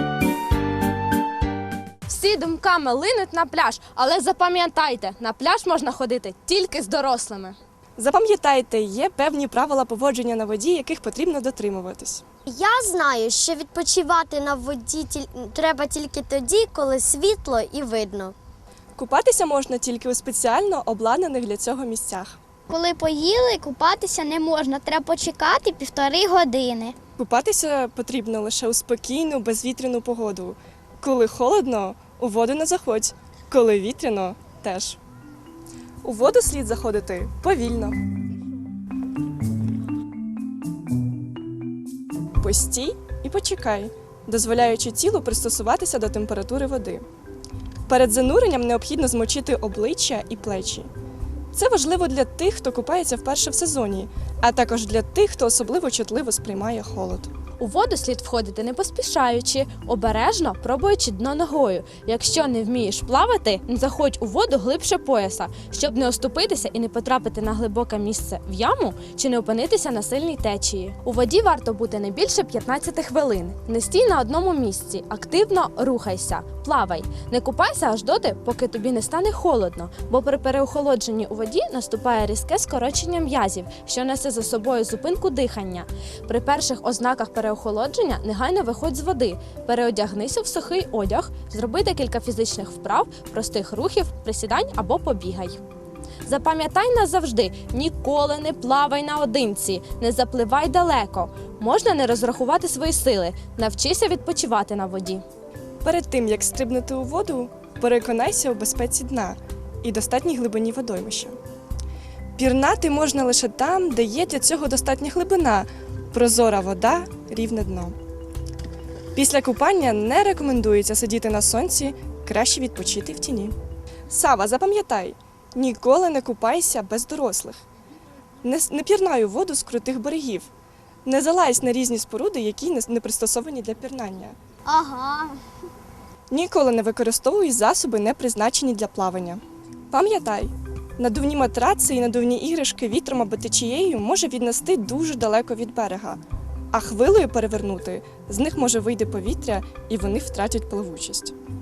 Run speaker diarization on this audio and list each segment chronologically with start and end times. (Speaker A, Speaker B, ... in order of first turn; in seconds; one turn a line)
Speaker A: 2.1-7.6
Speaker B: 8.0-12.2
Speaker C: 12.5-18.4
Speaker B: 19.0-22.4
Speaker C: 22.7-27.0
Speaker B: 27.2-35.0
Speaker B: 36.0-38.0
Speaker B: 42.4-47.0
Speaker B: 47.9-50.9
Speaker B: 51.5-57.3
Speaker A: 57.6-95.6
Speaker A: 96.3-105.2
Speaker B: 105.8-111.3
Speaker B: 112.4-118.0
Speaker B: 119.2-123.5
Speaker B: 124.1-127.6
Speaker B: 128.4-130.5
Speaker B: 131.1-134.3
Speaker C: 134.7-135.3
Speaker B: 136.3-139.4
Speaker B: 139.9-146.2
Speaker B: 146.7-151.3